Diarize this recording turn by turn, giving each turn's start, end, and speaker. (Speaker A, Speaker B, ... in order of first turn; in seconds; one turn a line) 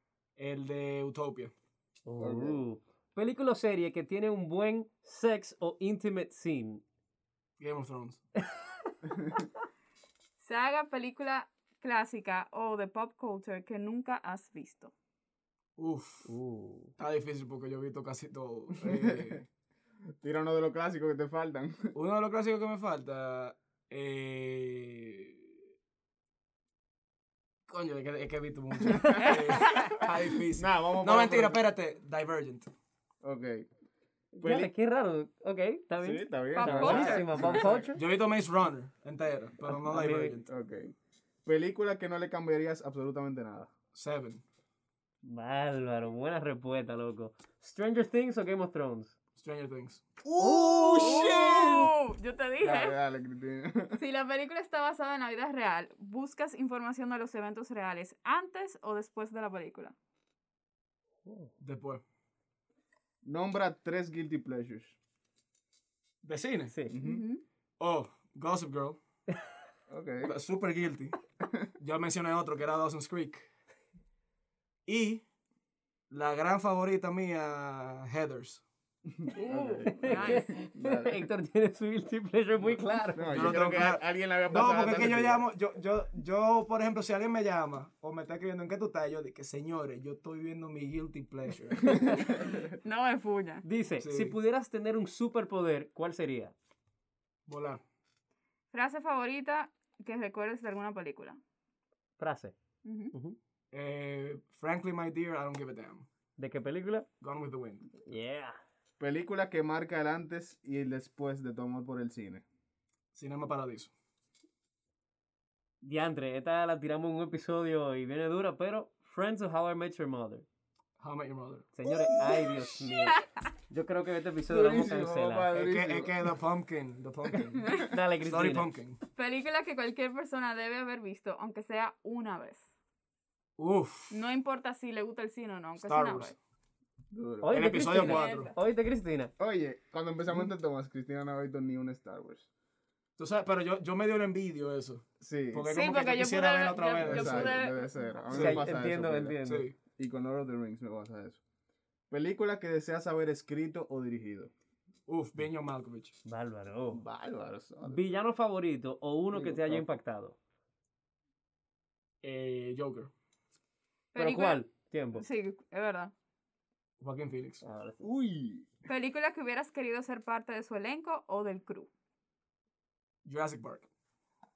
Speaker A: 0.4-1.5
Speaker B: 2.0-6.8
Speaker C: 2.2-2.6
Speaker A: 7.6-8.2
Speaker D: 10.4-14.9
Speaker A: 15.8-16.3
Speaker B: 16.2-16.9
Speaker A: 17.0-19.5
Speaker C: 18.8-19.4
Speaker C: 20.2-21.9
Speaker A: 21.9-25.6
Speaker A: 27.7-32.7
Speaker C: 28.9-29.2
Speaker D: 29.2-29.9
Speaker C: 30.6-31.6
Speaker C: 33.2-33.7
Speaker B: 34.4-38.0
Speaker C: 34.4-34.7
Speaker C: 36.0-37.9
Speaker D: 36.5-37.5
Speaker A: 37.9-40.5
Speaker B: 39.7-40.4
Speaker C: 40.5-40.9
Speaker C: 41.5-43.7
Speaker A: 43.9-44.4
Speaker B: 45.2-49.1
Speaker A: 49.4-50.1
Speaker C: 50.2-51.9
Speaker B: 50.4-51.0
Speaker D: 50.7-53.0
Speaker C: 52.6-54.0
Speaker D: 54.0-60.0
Speaker B: 61.3-61.5
Speaker A: 61.6-62.0
Speaker C: 63.2-65.0
Speaker A: 66.2-66.7
Speaker C: 66.9-67.2
Speaker D: 67.0-67.4
Speaker A: 67.8-69.0
Speaker C: 69.9-70.3
Speaker A: 70.2-71.2
Speaker C: 71.4-71.7
Speaker A: 71.8-73.5
Speaker A: 74.9-75.2
Speaker A: 76.1-78.6
Speaker C: 79.1-81.2
Speaker D: 79.3-80.5
Speaker B: 79.9-83.7
Speaker C: 83.1-85.5
Speaker A: 83.3-92.3
Speaker D: 92.3-93.6
Speaker B: 93.6-96.5
Speaker A: 94.0-94.4
Speaker A: 97.5-97.8
Speaker D: 98.7-101.4
Speaker B: 102.2-102.5
Speaker D: 102.8-103.1
Speaker B: 103.1-103.4
Speaker A: 103.7-106.1
Speaker B: 106.4-107.1
Speaker A: 107.2-107.9
Speaker B: 108.0-108.6
Speaker C: 109.0-112.4
Speaker A: 113.1-113.9
Speaker B: 115.8-120.5
Speaker A: 121.0-121.7
Speaker B: 121.7-125.5
Speaker C: 124.5-126.1
Speaker A: 125.5-127.6
Speaker D: 127.6-127.9
Speaker B: 127.9-128.7
Speaker A: 128.2-129.0
Speaker D: 129.1-132.7
Speaker A: 133.6-134.2
Speaker D: 134.1-136.4
Speaker A: 135.8-136.3
Speaker C: 137.1-137.6
Speaker B: 137.4-139.3
Speaker A: 137.5-138.5
Speaker D: 137.9-138.5
Speaker C: 139.4-142.5
Speaker A: 143.2-147.7
Speaker C: 145.2-145.7
Speaker D: 145.7-148.4
Speaker C: 147.0-151.4
Speaker B: 148.3-149.7
Speaker A: 148.3-148.6
Speaker A: 149.4-149.7
Speaker C: 152.1-154.5
Speaker A: 155.1-156.2
Speaker B: 156.3-157.0
Speaker C: 156.9-158.1
Speaker B: 157.8-160.4
Speaker C: 159.3-159.9
Speaker A: 162.2-163.1
Speaker D: 164.2-164.6
Speaker B: 164.2-165.2
Speaker D: 165.1-166.1
Speaker A: 167.0-167.6
Speaker B: 167.6-168.0
Speaker C: 168.0-168.8
Speaker D: 168.9-171.9
Speaker A: 173.2-173.9